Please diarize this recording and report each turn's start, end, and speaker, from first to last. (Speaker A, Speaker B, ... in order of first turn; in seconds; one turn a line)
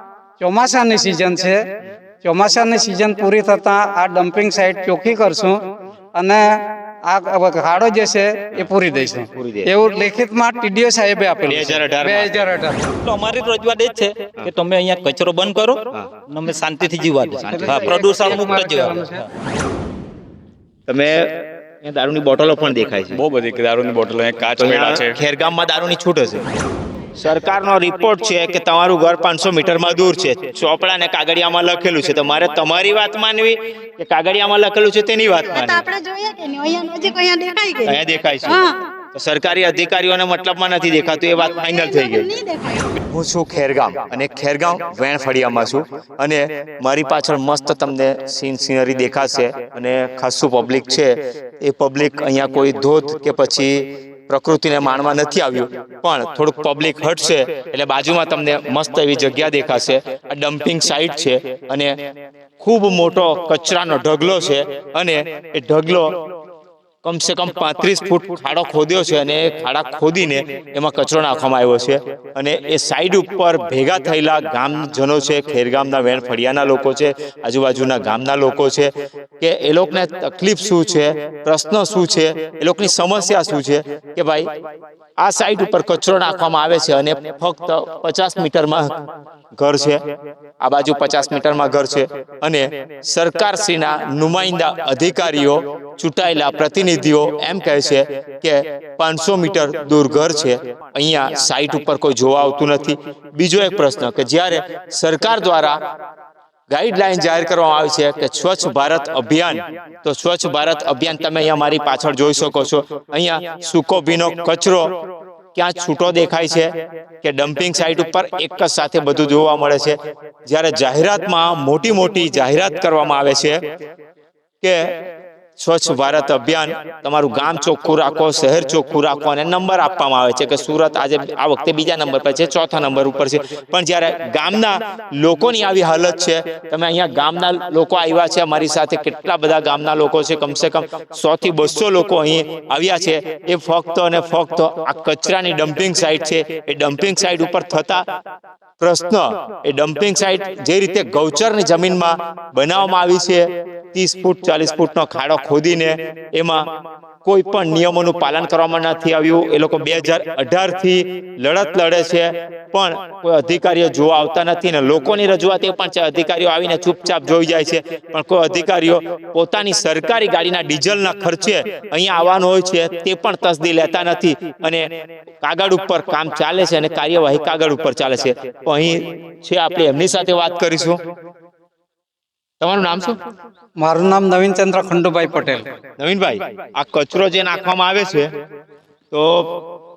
Speaker A: 0.4-1.6
Speaker A: 2.2-5.6
Speaker A: 6.1-6.5
Speaker A: 7.0-12.8
Speaker B: 9.3-9.7
Speaker B: 11.4-12.6
Speaker C: 13.0-19.2
Speaker B: 17.5-18.3
Speaker A: 17.5-19.2
Speaker B: 20.9-23.2
Speaker D: 23.1-25.2
Speaker B: 24.5-26.4
Speaker B: 27.2-35.8
Speaker E: 35.4-38.8
Speaker B: 37.8-42.3
Speaker E: 41.4-43.0
Speaker B: 43.0-61.9
Speaker B: 62.6-66.1
Speaker B: 67.0-84.5
Speaker B: 85.2-89.0
Speaker B: 89.6-90.0
Speaker B: 90.6-105.8
Speaker B: 106.7-114.9
Speaker B: 115.5-123.6
Speaker B: 124.6-125.0
Speaker B: 125.6-148.0
Speaker B: 148.8-156.6
Speaker B: 157.2-174.8
Speaker B: 175.4-181.0
Speaker B: 182.6-183.2
Speaker A: 183.8-185.7
Speaker B: 186.0-188.3
Speaker B: 189.1-189.5